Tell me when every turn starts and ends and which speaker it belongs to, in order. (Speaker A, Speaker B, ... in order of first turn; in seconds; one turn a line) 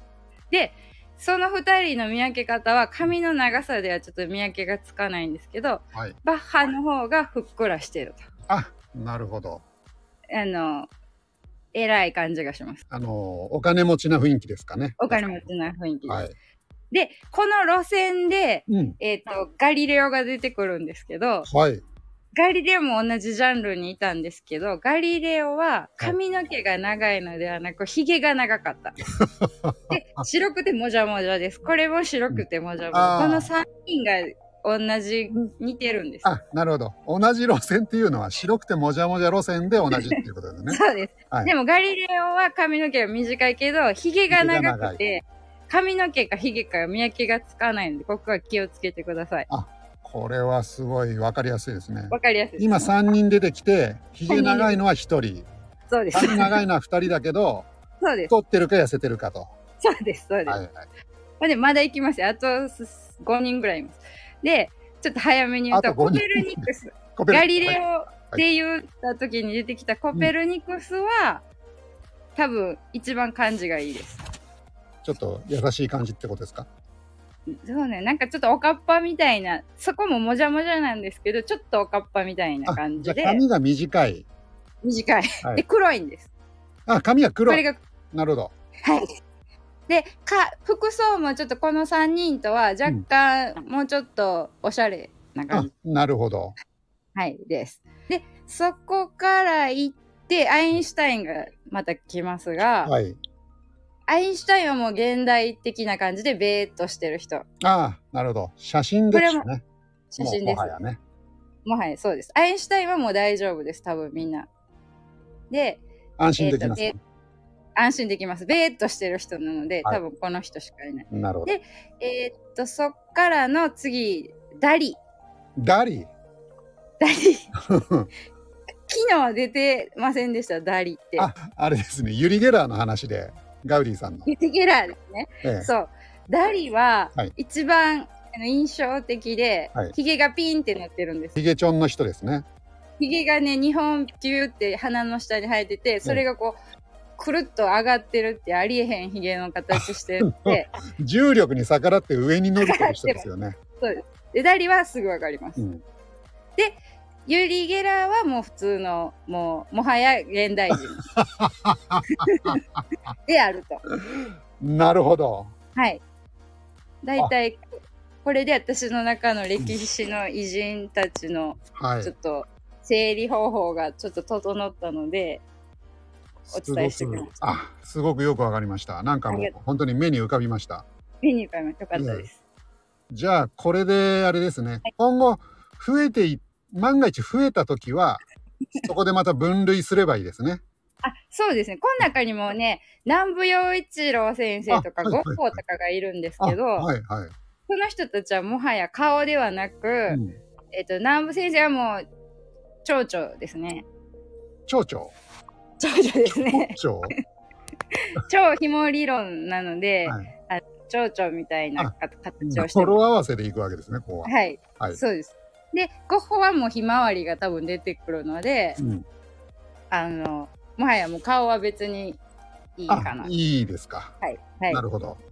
Speaker A: 0.5-8.2
Speaker B: 8.5-9.6
Speaker A: 10.3-10.9
Speaker A: 11.7-12.8
Speaker B: 12.9-15.4
Speaker A: 15.0-16.3
Speaker B: 16.1-16.3
Speaker A: 16.9-21.5
Speaker B: 18.7-19.0
Speaker B: 21.5-21.8
Speaker A: 22.3-29.0
Speaker B: 29.2-30.0
Speaker A: 29.9-36.3
Speaker B: 32.3-33.5
Speaker B: 36.2-41.5
Speaker A: 39.9-49.5
Speaker B: 44.3-45.0
Speaker B: 49.5-55.5
Speaker A: 52.1-52.9
Speaker A: 54.3-54.8
Speaker A: 55.9-56.6
Speaker B: 56.1-57.7
Speaker A: 58.0-58.3
Speaker B: 58.3-59.5
Speaker A: 59.8-60.6
Speaker B: 60.5-60.8
Speaker A: 61.4-71.4
Speaker B: 65.7-67.8
Speaker A: 72.4-74.2
Speaker B: 75.0-76.7
Speaker A: 77.5-83.4
Speaker B: 82.7-84.2
Speaker A: 84.8-86.3
Speaker B: 86.9-88.5
Speaker A: 87.5-87.8
Speaker A: 89.9-95.7
Speaker B: 95.5-96.6
Speaker A: 97.2-102.9
Speaker B: 102.8-103.2
Speaker A: 104.1-107.5
Speaker B: 107.6-109.6
Speaker A: 109.1-109.5
Speaker A: 110.1-110.7
Speaker B: 110.2-111.0
Speaker A: 111.7-114.5
Speaker A: 115.5-115.8
Speaker B: 116.2-117.0
Speaker A: 116.4-117.0
Speaker A: 117.8-125.0
Speaker B: 121.1-121.5
Speaker B: 125.6-126.1
Speaker A: 127.0-127.5
Speaker B: 127.7-128.1
Speaker A: 128.9-131.3
Speaker B: 131.2-134.3
Speaker A: 134.2-141.4
Speaker B: 135.4-135.7
Speaker B: 141.4-142.4
Speaker A: 143.0-146.6
Speaker A: 147.2-150.7
Speaker B: 149.7-153.6
Speaker A: 152.6-153.3
Speaker A: 153.8-155.6
Speaker A: 156.6-161.0
Speaker B: 161.2-162.8
Speaker A: 162.1-162.6
Speaker A: 163.3-163.8
Speaker B: 164.2-165.5
Speaker A: 165.8-166.0
Speaker A: 167.0-167.6
Speaker A: 168.2-175.4
Speaker B: 171.8-172.1
Speaker B: 176.5-180.8
Speaker A: 176.5-177.5
Speaker A: 181.2-182.4
Speaker B: 181.9-182.3
Speaker B: 183.1-188.2
Speaker B: 188.8-190.6
Speaker A: 191.0-196.9
Speaker B: 194.7-195.6
Speaker B: 196.4-197.3
Speaker A: 197.7-200.2
Speaker B: 200.1-200.4
Speaker A: 200.7-202.0
Speaker A: 202.8-203.8
Speaker B: 204.7-205.1
Speaker A: 205.8-207.1
Speaker B: 206.3-207.1
Speaker A: 208.2-213.0
Speaker B: 211.8-215.0
Speaker A: 214.2-218.8
Speaker B: 218.8-219.0
Speaker A: 219.9-222.2
Speaker A: 222.8-223.3
Speaker B: 222.9-224.1
Speaker A: 224.2-224.8
Speaker B: 224.7-225.2